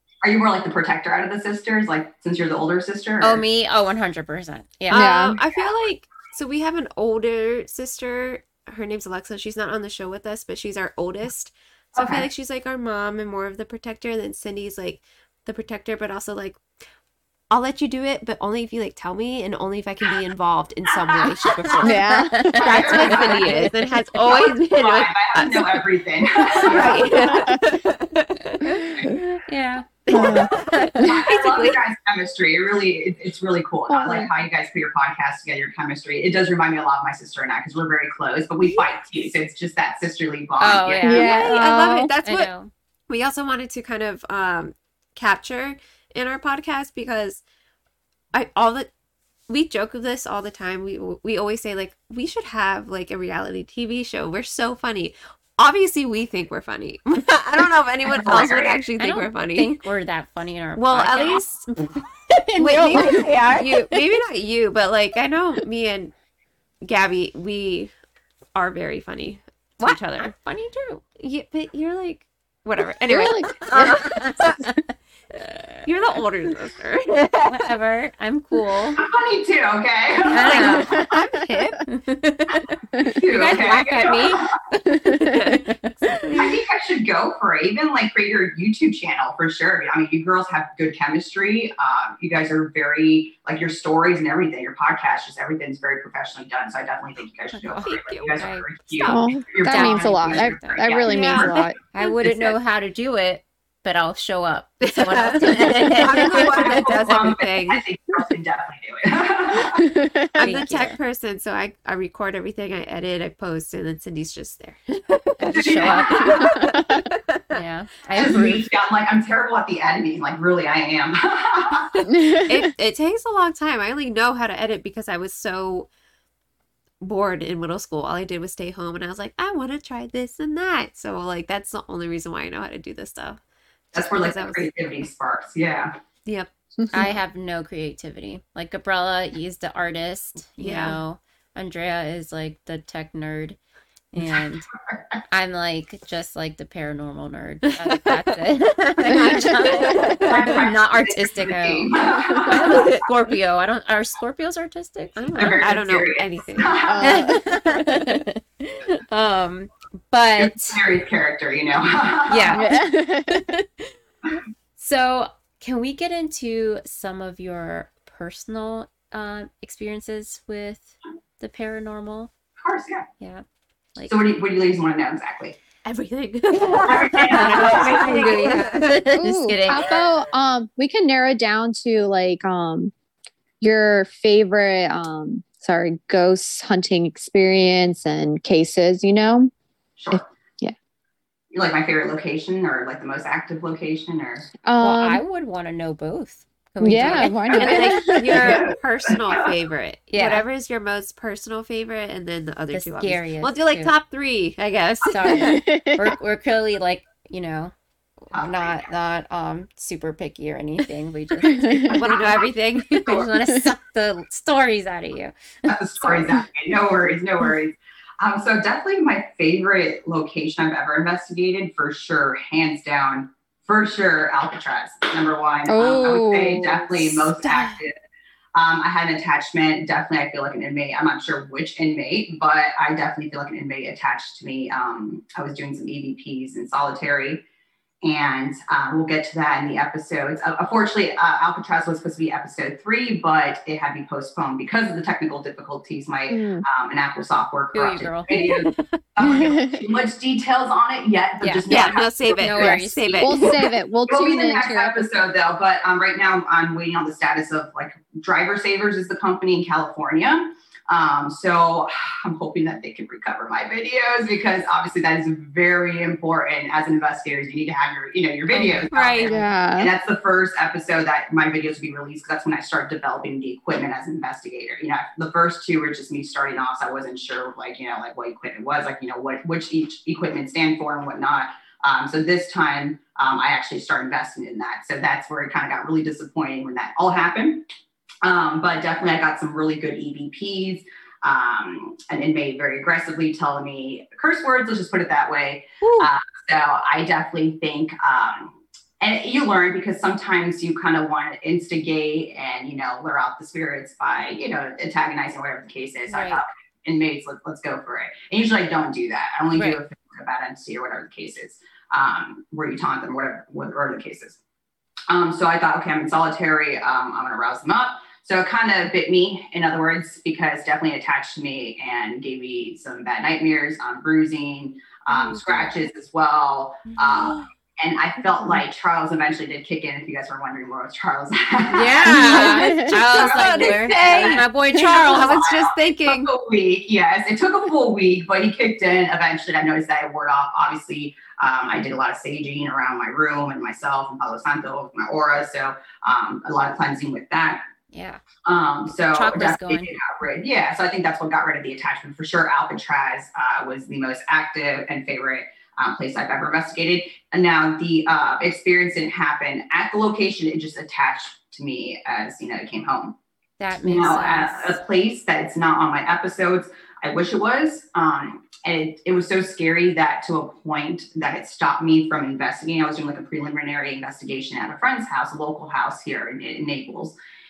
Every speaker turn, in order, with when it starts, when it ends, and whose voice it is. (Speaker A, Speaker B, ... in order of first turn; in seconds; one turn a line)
Speaker A: 0.2-3.4
Speaker B: 3.2-5.0
Speaker C: 4.9-16.6
Speaker D: 4.9-5.4
Speaker A: 11.9-12.2
Speaker C: 17.5-28.9
Speaker B: 21.8-23.7
Speaker D: 21.8-23.2
Speaker A: 22.6-27.5
Speaker D: 27.3-27.6
Speaker D: 28.9-29.1
Speaker B: 29.1-31.1
Speaker C: 30.1-31.8
Speaker D: 30.1-30.5
Speaker A: 31.0-41.3
Speaker D: 33.9-34.3
Speaker B: 40.6-41.5
Speaker D: 41.0-42.1
Speaker C: 41.0-42.5
Speaker B: 42.2-42.7
Speaker C: 43.1-47.4
Speaker C: 48.3-48.9
Speaker C: 49.5-59.8
Speaker A: 58.2-58.8
Speaker B: 59.0-64.0
Speaker C: 60.8-61.7
Speaker C: 62.6-66.1
Speaker C: 66.8-67.9
Speaker C: 68.5-70.3
Speaker B: 69.8-71.0
Speaker C: 71.2-74.6
Speaker D: 73.1-74.0
Speaker B: 73.5-74.8
Speaker C: 75.8-77.7
Speaker B: 77.4-79.0
Speaker A: 79.0-81.1
Speaker B: 80.3-81.1
Speaker C: 80.3-81.9
Speaker D: 81.0-81.7
Speaker B: 81.8-86.5
Speaker A: 83.0-84.6
Speaker D: 84.9-85.5
Speaker A: 86.3-101.7
Speaker B: 97.5-100.8
Speaker C: 97.8-98.4
Speaker D: 99.0-101.7
Speaker C: 101.0-102.1
Speaker B: 101.9-107.4
Speaker C: 104.8-107.8
Speaker A: 106.2-109.9
Speaker D: 109.7-110.6
Speaker C: 110.3-117.4
Speaker B: 110.4-111.0
Speaker B: 115.4-116.6
Speaker A: 115.5-116.5
Speaker D: 116.6-117.1
Speaker B: 117.5-118.7
Speaker A: 118.1-121.9
Speaker C: 122.0-125.9
Speaker D: 122.1-122.7
Speaker C: 127.0-133.4
Speaker C: 133.9-134.7
Speaker A: 133.9-135.9
Speaker B: 136.9-143.6
Speaker C: 140.6-141.0
Speaker B: 144.1-144.7
Speaker B: 145.3-155.7
Speaker C: 147.7-148.4
Speaker C: 149.0-150.6
Speaker A: 150.1-152.9
Speaker C: 155.2-157.1
Speaker A: 155.3-157.2
Speaker D: 156.9-157.4
Speaker B: 157.0-160.8
Speaker A: 160.4-162.7
Speaker B: 162.3-162.8
Speaker D: 162.5-163.5
Speaker B: 163.3-163.9
Speaker B: 164.8-172.3
Speaker A: 172.6-173.1
Speaker B: 173.2-173.4
Speaker A: 174.1-175.6
Speaker C: 175.8-178.9
Speaker B: 176.5-179.8
Speaker A: 176.8-178.6
Speaker D: 179.2-182.9
Speaker D: 183.6-189.5
Speaker A: 190.0-190.3
Speaker D: 190.1-190.7
Speaker A: 191.5-194.5
Speaker D: 194.6-195.2
Speaker B: 194.8-198.6
Speaker D: 196.8-198.6
Speaker C: 197.2-205.6
Speaker A: 198.3-199.1
Speaker B: 200.1-200.4
Speaker B: 202.7-203.9
Speaker B: 205.1-207.7
Speaker D: 205.3-206.2
Speaker B: 208.3-212.0
Speaker A: 208.3-208.8
Speaker D: 211.4-212.0
Speaker C: 211.9-213.3
Speaker A: 212.0-212.5
Speaker B: 213.0-215.3
Speaker A: 215.7-227.9
Speaker B: 216.0-216.4
Speaker D: 225.7-226.8
Speaker A: 228.5-237.4
Speaker A: 238.0-252.8
Speaker D: 246.3-246.6
Speaker B: 247.7-248.5
Speaker C: 248.4-248.8
Speaker D: 249.2-249.8
Speaker B: 251.4-253.5
Speaker C: 251.7-253.7
Speaker D: 253.2-255.0
Speaker A: 254.1-287.6
Speaker B: 268.5-268.9
Speaker C: 268.9-269.3
Speaker D: 269.3-269.9
Speaker A: 288.2-314.4
Speaker C: 295.8-296.1
Speaker B: 306.1-306.4
Speaker B: 309.5-309.8
Speaker A: 315.1-347.6
Speaker B: 327.0-327.4
Speaker B: 331.7-335.4
Speaker C: 332.0-336.3
Speaker D: 332.1-333.0
Speaker B: 347.9-348.2
Speaker A: 348.4-363.1
Speaker B: 349.1-349.9
Speaker B: 363.6-364.8
Speaker A: 363.8-377.1